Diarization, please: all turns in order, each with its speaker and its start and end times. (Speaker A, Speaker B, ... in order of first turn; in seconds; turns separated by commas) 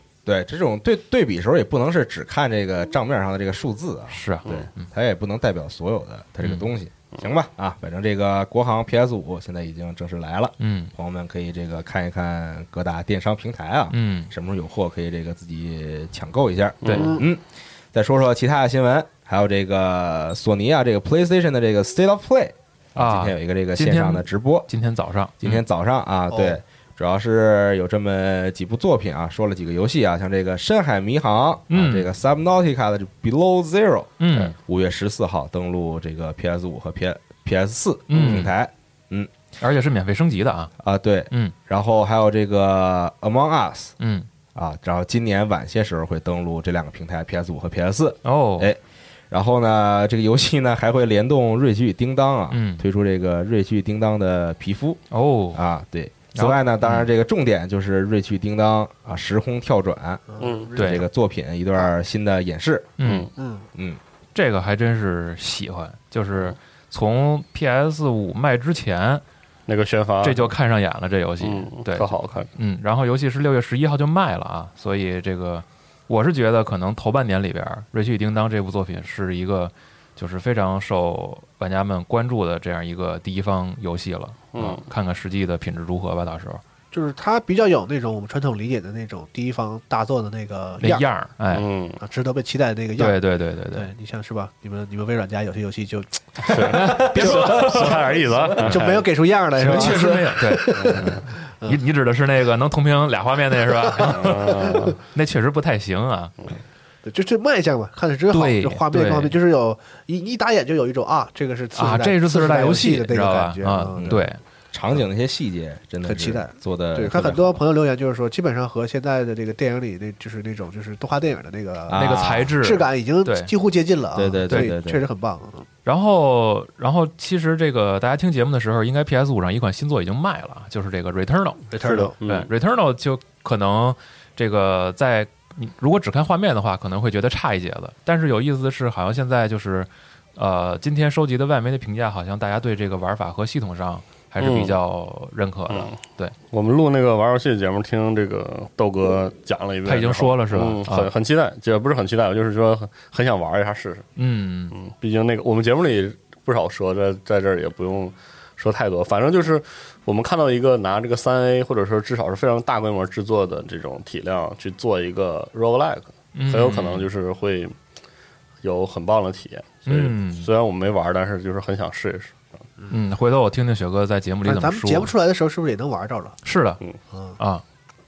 Speaker A: 0.3-24.7, Speaker B: 4.1-4.9, Speaker B: 6.4-6.7, Speaker B: 10.6-10.9, Speaker B: 13.9-14.3, Speaker C: 16.8-17.1, Speaker D: 17.0-17.2, Speaker B: 23.0-25.6, Speaker A: 25.4-39.3, Speaker D: 26.3-26.6, Speaker B: 31.7-32.1, Speaker B: 34.2-34.5, Speaker B: 38.1-38.5, Speaker C: 38.1-38.5, Speaker B: 39.6-40.7, Speaker A: 40.8-44.0, Speaker B: 44.0-44.3, Speaker A: 44.5-48.8, Speaker B: 48.2-48.7, Speaker A: 49.3-55.0, Speaker B: 52.5-52.8, Speaker B: 55.1-55.6, Speaker A: 55.5-60.2, Speaker B: 56.4-57.1, Speaker D: 60.3-61.0, Speaker C: 60.4-60.7, Speaker A: 60.7-62.9, Speaker B: 60.8-61.1, Speaker B: 63.0-63.3, Speaker C: 63.0-63.3, Speaker D: 63.4-63.6, Speaker B: 64.3-69.2, Speaker C: 69.7-70.5, Speaker B: 70.2-86.6, Speaker C: 71.4-72.5, Speaker C: 84.5-84.8, Speaker D: 86.9-91.1, Speaker B: 90.8-91.7, Speaker C: 91.5-92.0, Speaker D: 92.0-101.8, Speaker B: 93.0-93.9, Speaker C: 96.5-99.0, Speaker B: 96.5-98.0, Speaker B: 98.6-98.9, Speaker B: 99.6-106.3, Speaker A: 99.6-100.1, Speaker D: 103.9-105.0, Speaker C: 104.1-105.0, Speaker D: 107.0-114.2, Speaker B: 108.3-109.4, Speaker B: 111.8-114.4, Speaker A: 114.7-117.6, Speaker D: 116.0-125.7, Speaker A: 121.9-122.5, Speaker B: 121.9-123.5, Speaker A: 124.1-125.0, Speaker B: 125.8-131.7, Speaker D: 131.7-132.2, Speaker C: 131.7-132.5, Speaker B: 132.2-146.3, Speaker C: 144.4-144.8, Speaker C: 145.7-146.0, Speaker C: 146.5-154.1, Speaker B: 149.9-151.1, Speaker B: 154.2-154.8, Speaker C: 154.7-167.8, Speaker B: 166.3-167.1, Speaker C: 168.6-172.4, Speaker B: 169.9-170.5, Speaker B: 172.9-175.1, Speaker D: 174.4-176.4, Speaker B: 176.4-176.8